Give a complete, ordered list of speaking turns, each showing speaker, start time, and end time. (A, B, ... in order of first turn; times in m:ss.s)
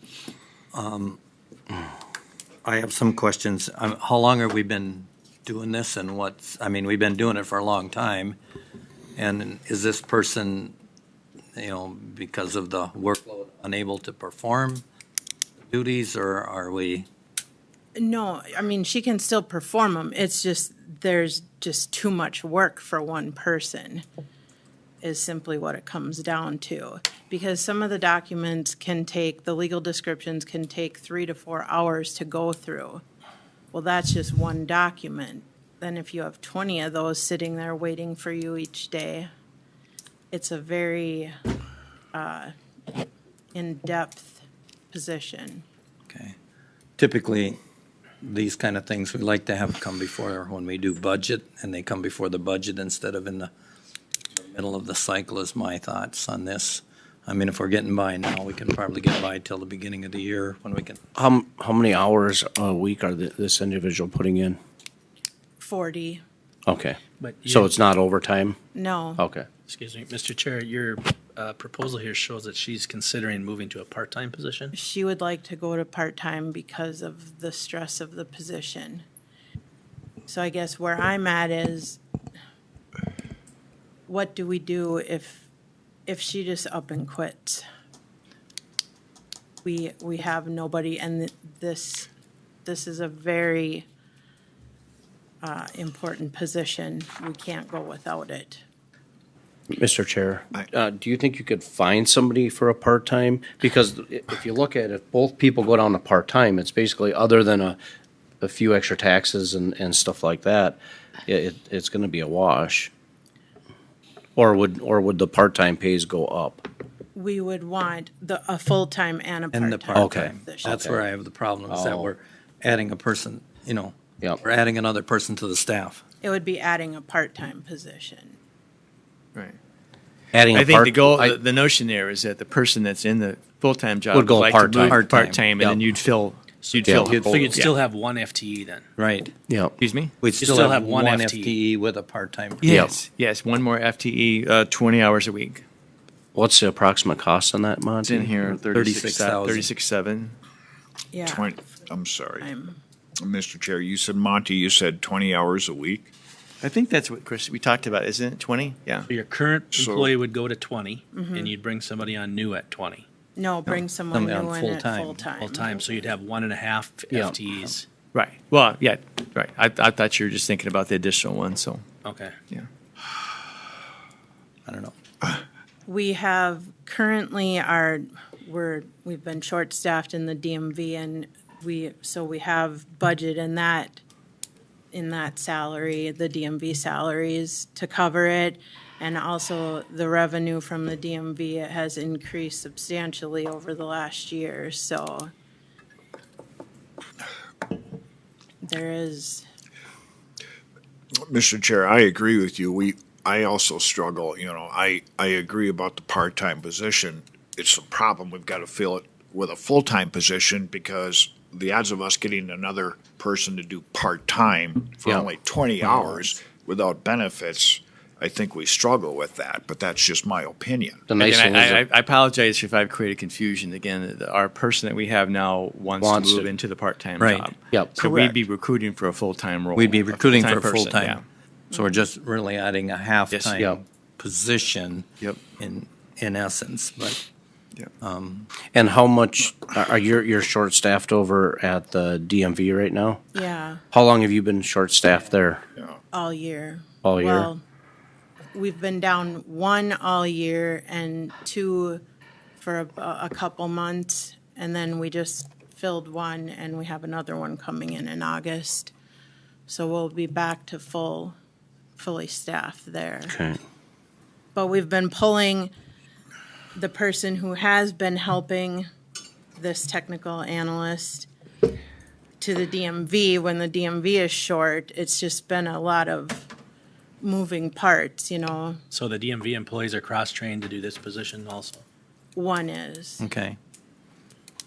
0:00.7-0:01.2 A
0:02.6-0:08.4 A
0:09.2-0:10.7 A
0:11.6-0:14.8 A
0:15.7-0:17.1 A
0:18.0-0:24.1 B
0:25.0-0:33.0 B
0:33.7-0:39.3 B
0:40.3-0:41.4 B
0:42.1-0:42.6 B
0:43.5-0:45.6 B
0:46.1-0:46.4 A
0:47.0-0:47.6 A
0:48.2-0:53.5 A
0:54.4-1:01.0 A
1:01.2-1:04.6 C
1:05.6-1:06.2 B
1:06.7-1:08.6 C
1:07.2-1:07.7 D
1:08.7-1:09.2 B
1:09.2-1:09.5 C
1:09.7-1:14.8 D
1:14.7-1:19.0 B
1:20.3-1:22.0 B
1:24.1-1:25.5 B
1:26.1-1:27.7 B
1:29.6-1:32.1 B
1:32.6-1:33.9 B
1:35.4-1:38.6 B
1:39.7-1:47.8 C
1:48.4-1:52.9 C
1:54.4-1:56.7 C
1:57.1-2:00.8 B
1:59.5-2:06.0 A
2:00.0-2:01.0 C
2:01.7-2:02.1 C
2:06.2-2:08.4 B
2:10.3-2:11.4 C
2:10.5-2:17.7 E
2:14.1-2:15.0 C
2:14.7-2:15.4 A
2:16.6-2:18.9 D
2:16.8-2:17.6 C
2:19.0-2:19.3 A
2:19.8-2:20.2 E
2:20.2-2:22.8 A
2:20.4-2:21.6 D
2:22.6-2:25.6 E
2:22.7-2:22.9 C
2:26.3-2:28.3 C
2:28.0-2:30.4 E
2:28.7-2:29.7 A
2:31.1-2:31.4 B
2:31.3-2:32.5 F
2:32.4-2:32.8 B
2:33.2-2:36.1 F
2:36.6-2:39.1 E
2:39.1-2:43.0 D
2:39.7-2:40.1 F
2:41.1-2:41.5 B
2:43.4-2:45.7 B
2:44.1-2:45.2 A
2:45.4-2:47.9 D
2:48.1-2:51.9 E
2:52.0-2:52.4 D
2:54.7-2:55.0 A
2:55.9-3:04.0 B
3:04.9-3:15.3 B
3:18.6-3:19.5 B
3:21.2-3:41.1 F
3:41.1-3:41.8 C
3:41.2-3:51.2 E
3:46.0-3:46.5 C
3:47.2-3:47.5 A
3:49.8-3:51.2 A
3:51.7-3:52.0 B
3:51.7-3:55.1 A
3:53.3-3:53.6 E
3:55.6-3:57.2 A
3:58.0-3:58.5 A
3:58.7-4:03.2 C
4:03.3-4:03.8 B
4:03.9-4:05.6 C
4:06.1-4:07.6 B
4:07.0-4:07.5 C
4:08.5-4:12.0 B
4:12.6-4:18.9 B
4:19.7-4:21.4 B
4:22.0-4:23.4 B
4:23.3-4:23.6 C
4:24.5-4:25.7 B
4:26.8-4:28.9 B
4:29.6-4:31.3 B
4:32.4-4:36.5 B
4:37.2-4:38.8 B
4:38.9-4:41.8 D
4:42.4-4:43.3 B
4:43.2-4:43.6 A